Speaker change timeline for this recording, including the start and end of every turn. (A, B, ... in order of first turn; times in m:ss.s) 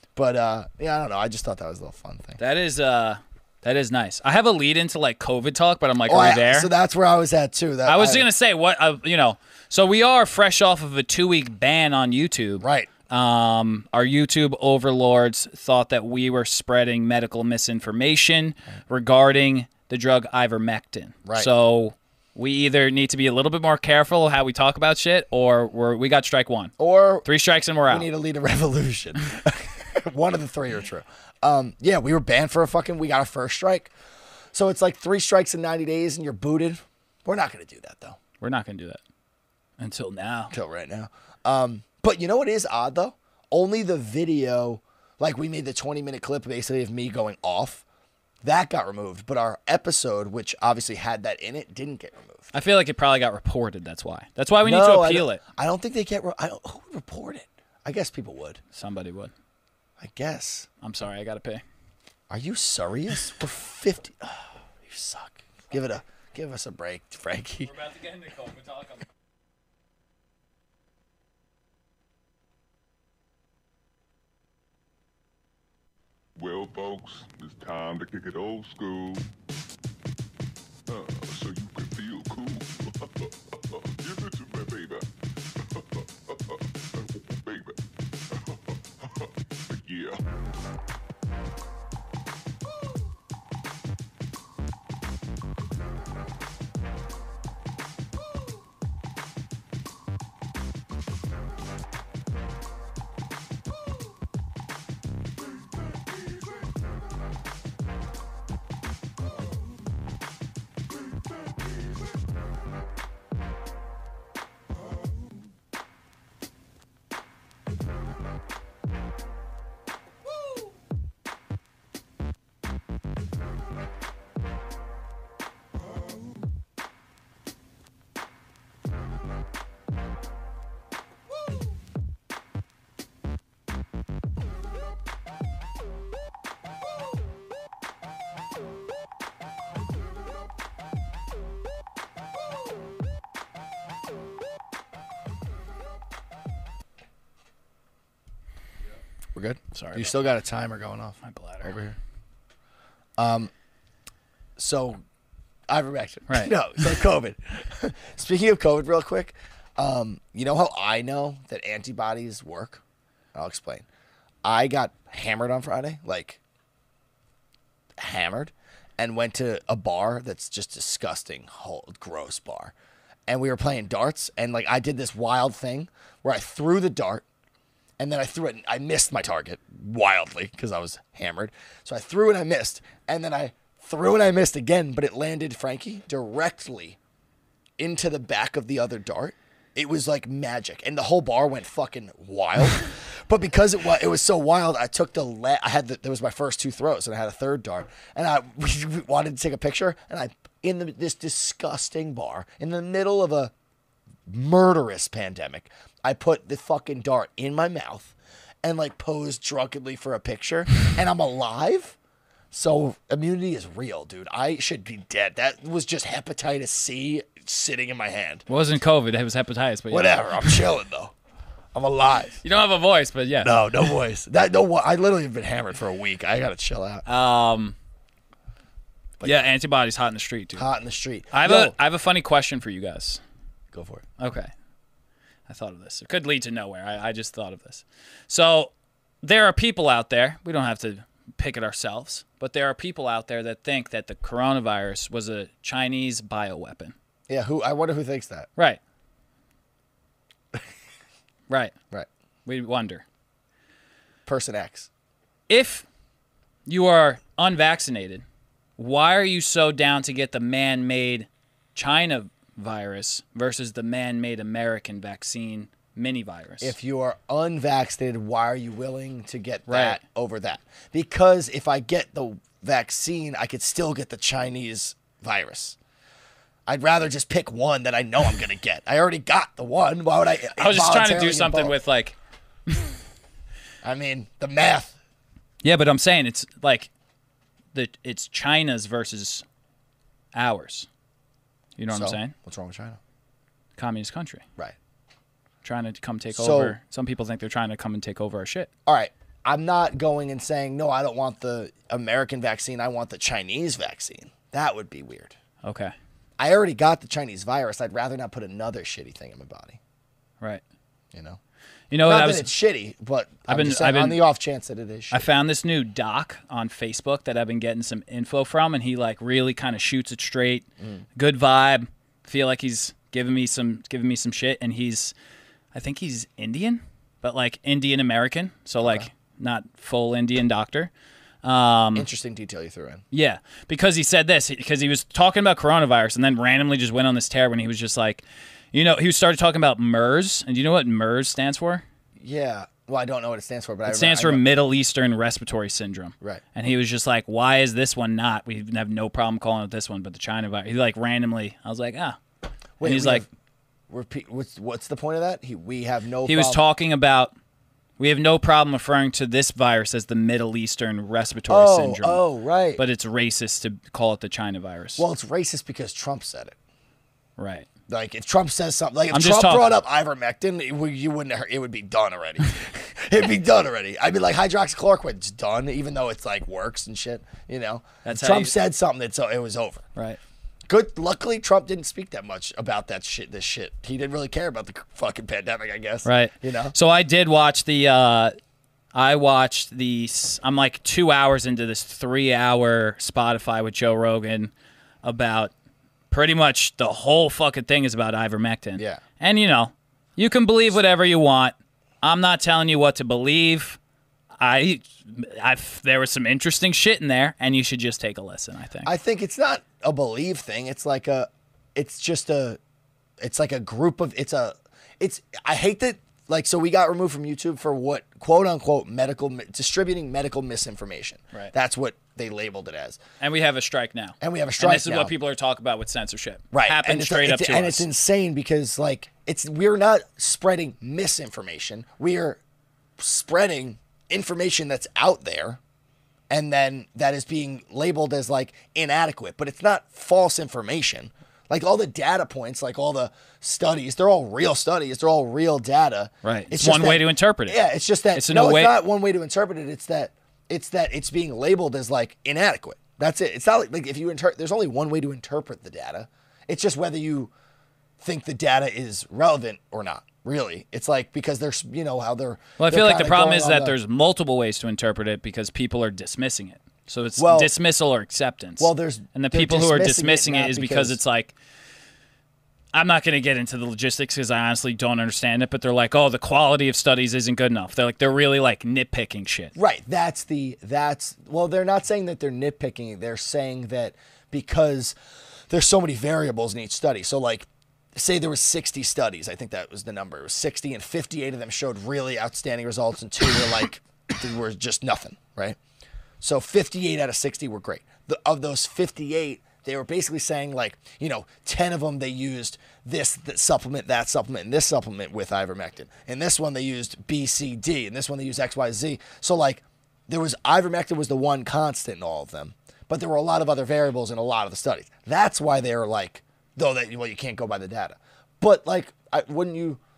0:00.2-0:02.4 A
0:02.4-0:06.7 B
0:06.1-0:08.3 A
0:07.8-0:26.7 B
0:12.6-0:12.9 A
0:21.2-0:21.5 A
0:26.8-0:27.3 A
0:27.2-0:28.1 B
0:27.9-0:33.9 A
0:34.5-0:38.2 A
0:38.4-0:39.0 B
0:39.8-0:40.5 B
0:40.5-0:47.8 A
0:48.4-0:52.5 A
0:52.5-0:55.4 B
0:54.6-0:58.6 A
0:58.7-0:59.3 B
1:00.0-1:00.7 A
1:00.8-1:01.6 B
1:02.3-1:07.7 A
1:07.6-1:09.0 B
1:16.4-1:19.3 C
1:20.9-1:25.1 C
1:25.6-1:27.8 C
1:28.3-1:30.2 C
2:29.3-2:32.0 A
2:29.7-2:30.2 B
2:31.2-2:31.8 B
2:33.2-2:33.5 A
2:34.6-2:35.0 A
2:35.7-2:42.8 A
2:36.3-2:36.5 B
2:43.3-2:43.8 A
2:44.4-2:46.4 A
2:48.0-2:52.7 A
2:53.3-2:57.2 A
2:58.0-3:07.0 A
3:07.8-3:23.5 A
3:24.3-3:32.0 A
3:32.5-3:38.4 A
3:38.5-3:40.6 B
3:39.9-3:41.1 A
3:41.7-3:42.4 A
3:42.4-3:43.6 B
3:43.4-3:47.0 A
3:47.0-3:47.8 B
3:49.2-3:50.7 B
3:50.6-3:51.7 A
3:51.3-3:53.2 B
3:53.7-3:54.0 A
3:54.2-3:54.5 B
3:55.5-4:06.9 B
4:07.3-4:08.5 A
4:11.5-4:11.7 B
4:12.4-4:13.0 B
4:14.2-4:14.9 A
4:15.5-4:15.8 B
4:16.6-4:18.2 B
4:18.8-4:26.7 B
4:26.6-4:35.8 A
4:29.7-4:30.0 B
4:36.6-4:41.7 A
4:40.6-4:42.2 B
4:43.8-4:45.0 A
4:45.6-4:46.9 B
4:47.7-4:49.4 B
4:50.3-4:50.9 B
4:51.8-4:52.3 B
4:51.9-4:53.0 A
4:53.8-4:54.4 B
4:55.6-4:58.7 B
4:56.3-4:56.8 A
4:58.8-5:05.3 A
5:05.6-5:05.9 B
5:06.4-5:09.8 A
5:11.1-5:11.4 A
5:11.9-5:12.5 B
5:12.0-5:15.2 A
5:13.5-5:14.2 B
5:15.1-5:25.1 B
5:25.7-5:30.9 B
5:28.8-5:29.1 A
5:31.4-5:32.1 B
5:31.9-5:33.0 A
5:33.1-5:41.8 B
5:42.2-5:44.4 A
5:43.8-5:52.2 B
5:52.8-5:53.3 A
5:52.8-5:53.2 B
5:53.9-5:56.6 A
5:56.3-5:57.3 B
5:58.0-6:02.2 B
6:01.5-6:02.8 A
6:02.8-6:05.0 B
6:05.0-6:06.6 A
6:07.4-6:07.7 B
6:07.9-6:19.8 A
6:09.1-6:09.7 B
6:18.0-6:18.5 B
6:20.7-6:26.7 A
6:26.0-6:28.3 B
6:28.9-6:34.5 B
6:35.0-6:35.5 B
6:36.1-6:43.8 B
6:38.8-6:39.0 A
6:44.4-6:48.9 B
6:48.8-6:52.6 A
6:53.2-7:03.0 A
7:03.2-7:07.8 B
7:04.2-7:05.1 A
7:06.5-7:12.4 A
7:13.0-7:15.6 A
7:16.3-7:37.3 A
7:26.2-7:27.6 B
7:28.1-7:28.8 B
7:38.0-7:43.7 A
7:42.6-7:51.3 B
7:47.2-7:47.5 A
7:48.6-7:51.0 A
7:52.7-7:59.5 B
7:59.6-8:05.0 A
8:05.5-8:15.6 A
8:16.2-8:39.8 A